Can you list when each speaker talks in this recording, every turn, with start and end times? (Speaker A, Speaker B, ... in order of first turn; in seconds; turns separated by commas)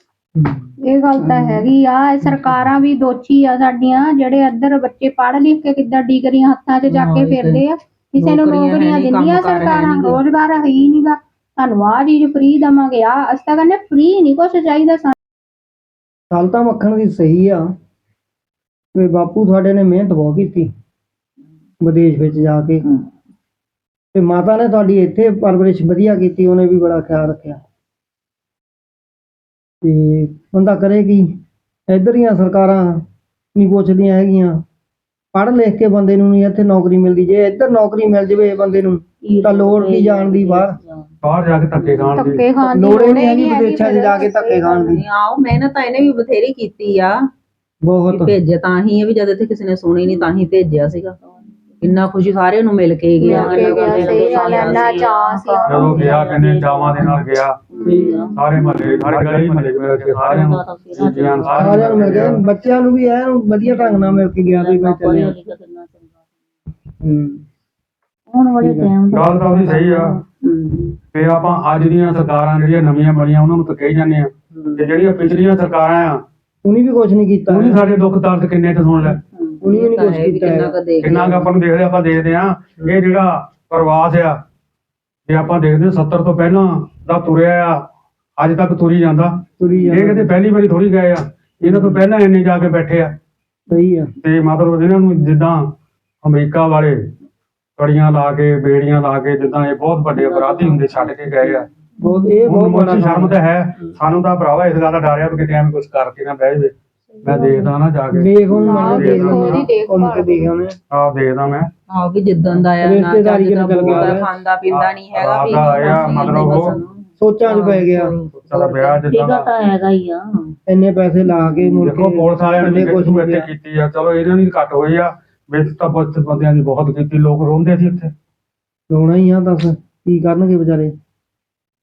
Speaker A: 0.8-15.1, Speaker B: 6.9-7.6, Speaker B: 8.2-10.2, Speaker C: 16.3-17.6, Speaker C: 18.9-20.7, Speaker C: 21.8-22.8, Speaker C: 24.1-27.6, Speaker C: 29.8-31.3, Speaker C: 31.9-33.0, Speaker C: 33.5-34.6, Speaker C: 35.3-40.8, Speaker D: 39.2-41.1, Speaker E: 41.2-42.4, Speaker B: 41.8-42.2, Speaker A: 42.1-44.9, Speaker C: 42.7-45.0, Speaker B: 44.9-47.2, Speaker C: 47.8-48.3, Speaker B: 48.1-51.2, Speaker D: 51.4-51.8, Speaker B: 51.8-56.2, Speaker A: 53.2-56.2, Speaker D: 53.3-59.1, Speaker E: 55.7-57.6, Speaker C: 57.9-58.1, Speaker E: 58.3-62.4, Speaker D: 60.2-62.4, Speaker C: 61.5-65.4, Speaker D: 63.7-66.1, Speaker C: 67.0-67.4, Speaker D: 68.3-70.9, Speaker C: 68.6-69.0, Speaker E: 69.1-70.2, Speaker E: 71.1-76.2, Speaker C: 74.5-74.9, Speaker C: 76.6-77.8, Speaker E: 77.5-79.2, Speaker B: 79.4-81.5, Speaker C: 79.6-80.7, Speaker E: 81.0-84.4, Speaker E: 85.2-87.8, Speaker E: 88.4-93.1, Speaker C: 89.6-90.3, Speaker C: 91.6-91.9, Speaker C: 93.7-94.1, Speaker E: 94.2-95.7, Speaker E: 96.2-97.0, Speaker E: 97.8-101.7, Speaker D: 100.1-101.6, Speaker C: 102.0-103.4, Speaker E: 102.4-109.7, Speaker C: 108.1-110.7, Speaker A: 108.6-110.4, Speaker E: 110.9-111.7, Speaker B: 111.9-119.0, Speaker C: 112.8-114.3, Speaker E: 113.8-114.2, Speaker E: 114.7-116.8, Speaker D: 115.6-116.7, Speaker C: 117.2-118.1, Speaker E: 118.4-119.5, Speaker D: 119.1-120.5, Speaker C: 120.7-123.5, Speaker E: 121.8-128.1, Speaker C: 128.9-130.9